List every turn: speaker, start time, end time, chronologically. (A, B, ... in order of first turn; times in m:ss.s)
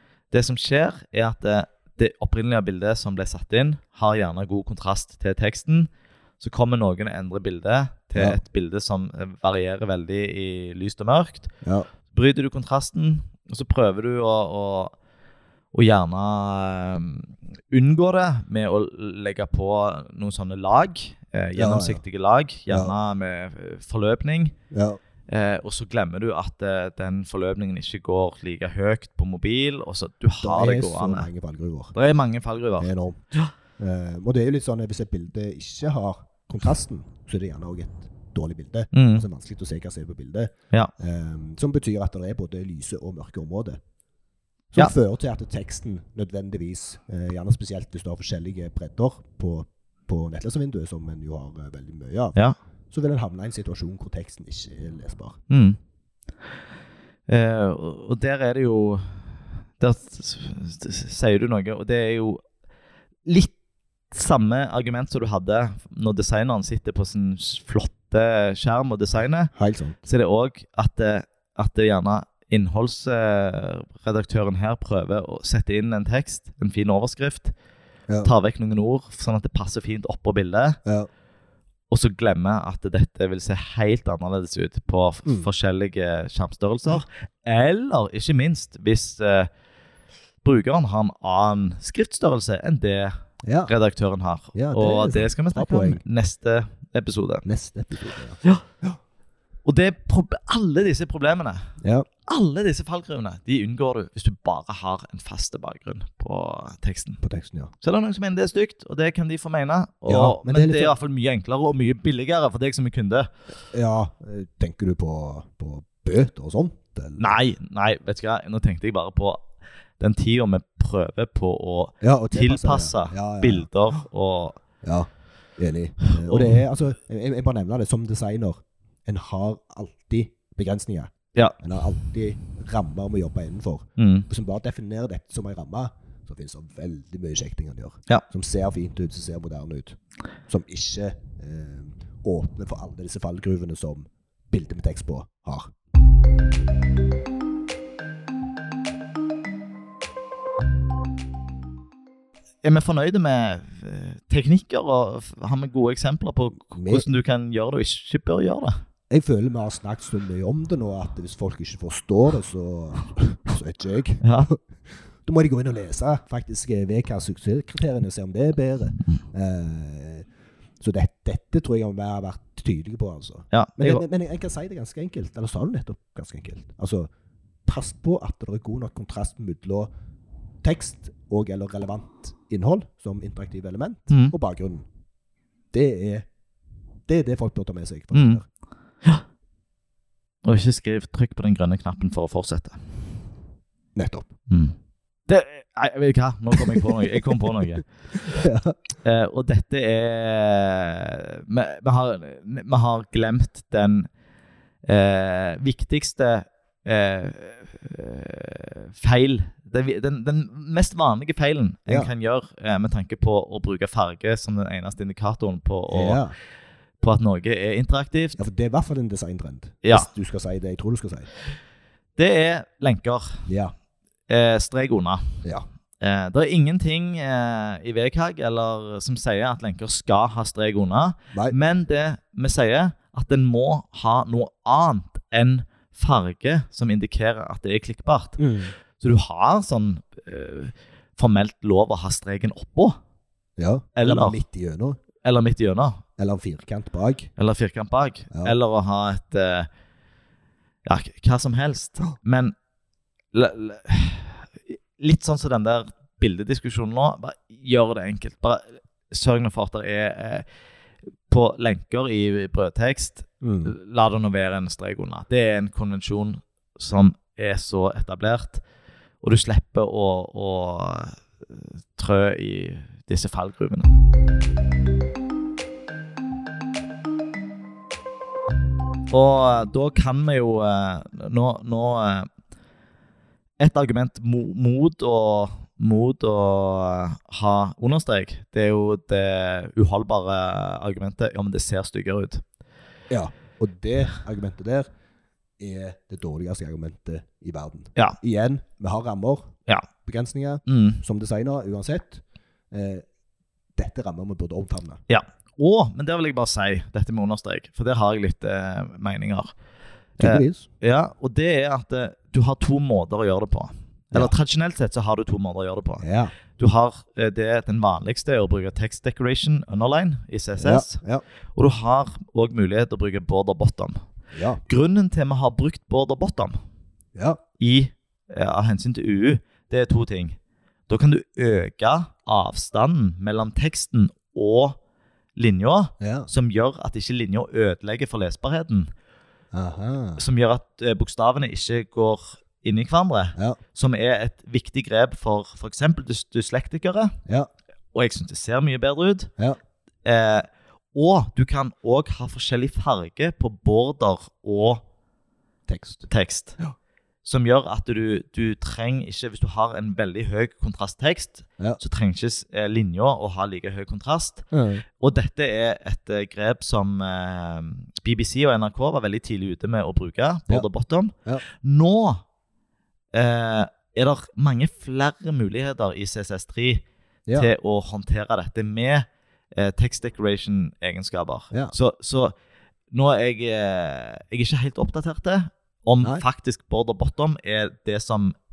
0:00.3-0:11.5 A
0:12.1-0:14.9 A
0:15.7-0:24.5 A
0:21.6-0:22.0 B
0:22.7-0:22.9 B
0:24.7-0:25.0 B
0:25.3-0:31.3 A
0:30.4-0:31.9 B
0:31.9-0:33.5 A
0:32.8-0:33.2 B
0:33.8-0:43.8 B
0:38.9-0:39.2 A
0:44.7-0:52.4 B
0:52.9-0:55.4 B
0:55.5-0:55.8 A
0:57.3-0:59.2 A
0:59.8-1:02.4 A
1:03.3-1:03.5 A
1:04.1-1:09.5 A
1:09.6-1:10.0 B
1:10.0-1:17.5 A
1:18.2-1:20.8 A
1:21.9-1:29.5 A
1:30.4-1:37.4 A
1:33.4-1:33.7 B
1:34.6-1:36.0 B
1:37.4-1:38.9 B
1:39.6-1:41.7 A
1:41.8-1:42.1 B
1:42.3-1:47.2 A
1:47.2-1:47.7 B
1:47.8-1:53.3 A
1:50.1-1:51.0 B
1:53.7-1:57.4 B
1:57.2-1:59.4 A
2:00.0-2:04.6 A
2:02.0-2:03.7 B
2:04.8-2:20.0 B
2:06.1-2:06.6 A
2:14.0-2:14.3 A
2:20.5-2:25.7 B
2:32.6-2:38.8 A
2:36.7-2:37.1 B
2:39.1-2:44.6 B
2:44.2-2:44.5 A
2:45.2-2:50.3 B
2:50.8-2:57.1 B
2:53.5-2:54.0 A
2:57.7-2:59.9 B
3:00.6-3:04.9 B
3:05.7-3:06.3 B
3:07.1-3:08.4 B
3:08.1-3:08.4 A
3:10.4-3:12.8 A
3:14.0-3:14.3 B
3:14.5-3:14.8 A
3:15.3-3:17.9 A
3:16.6-3:17.4 B
3:18.1-3:18.8 B
3:19.0-3:24.1 A
3:24.8-3:36.2 A
3:35.9-3:36.3 B
3:37.0-3:38.4 A
3:38.4-3:41.3 B
3:39.8-3:40.1 A
3:42.2-3:43.5 A
3:43.5-3:43.7 B
3:44.3-3:45.2 A
3:46.0-3:58.4 A
3:58.4-3:58.7 B
3:59.0-4:03.0 A
4:03.6-4:05.0 B
4:04.0-4:04.4 A
4:05.2-4:06.0 A
4:06.2-4:07.3 B
4:07.4-4:09.7 A
4:10.8-4:12.6 A
4:13.3-4:20.4 A
4:21.3-4:28.6 A
4:23.4-4:23.7 B
4:29.2-4:33.9 A
4:39.1-4:42.3 A
4:43.6-4:52.4 A
4:53.1-4:54.9 B
4:55.6-5:03.1 B
5:00.7-5:01.0 A
5:03.8-5:05.0 B
5:05.1-5:09.5 A
5:10.2-5:10.7 B
5:10.2-5:21.0 A
5:16.0-5:16.3 B
5:20.6-5:21.2 B
5:21.6-5:24.0 A
5:24.3-5:24.6 B
5:24.7-5:26.6 A
5:27.1-5:27.4 B
5:27.6-5:30.4 A
5:30.9-5:34.8 A
5:35.4-5:38.9 A
5:36.0-5:36.3 B
5:39.5-5:40.2 B
5:40.2-5:47.2 A
5:47.9-5:49.3 A
5:50.0-5:54.8 A
5:55.7-5:56.1 B
5:56.1-5:56.6 A
5:57.2-6:04.5 A
6:04.5-6:04.8 B
6:05.0-6:12.2 A
6:13.1-6:16.8 A
6:17.4-6:22.3 A
6:22.9-6:28.4 A